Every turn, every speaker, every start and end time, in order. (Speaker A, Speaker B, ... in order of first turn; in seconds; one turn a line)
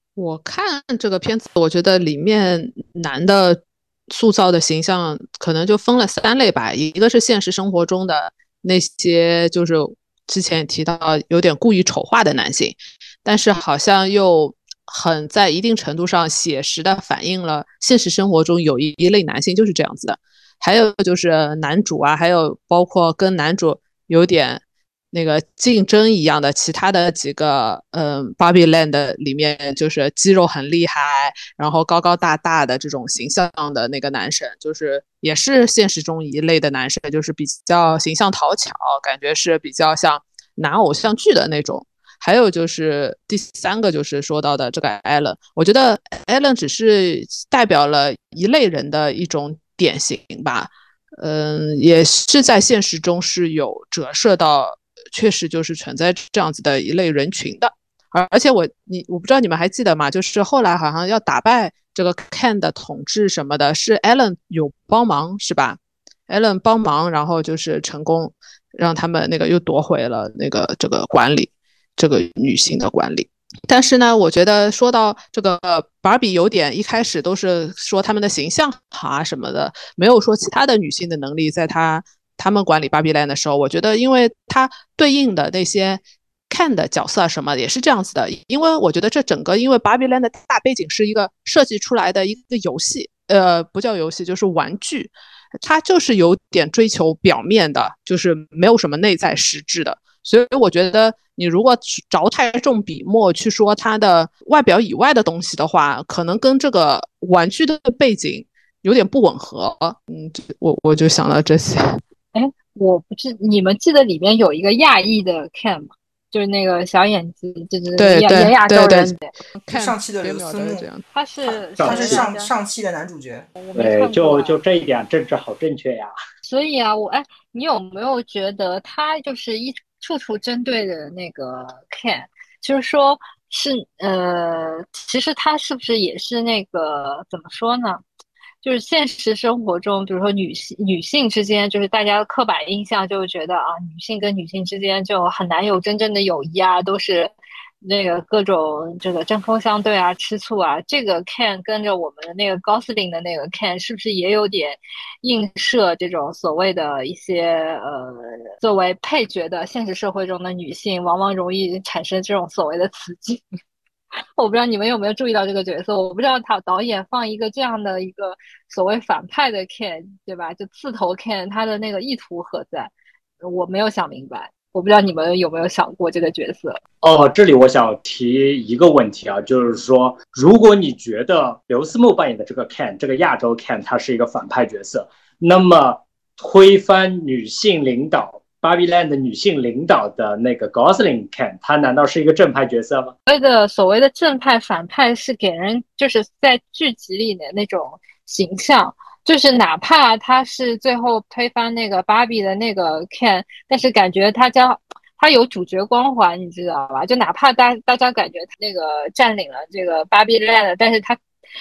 Speaker A: 0.2-112.0
Speaker B: 112.3-119.3
Speaker A: 118.0-121.0
Speaker C: 119.7-120.9
Speaker B: 121.1-122.5
Speaker C: 121.4-123.5
Speaker D: 121.8-122.3
Speaker B: 123.6-124.6
Speaker D: 123.8-126.1
Speaker B: 126.4-138.0
Speaker B: 138.6-163.4
Speaker B: 164.4-176.8
Speaker D: 177.0-193.1
Speaker B: 193.3-211.2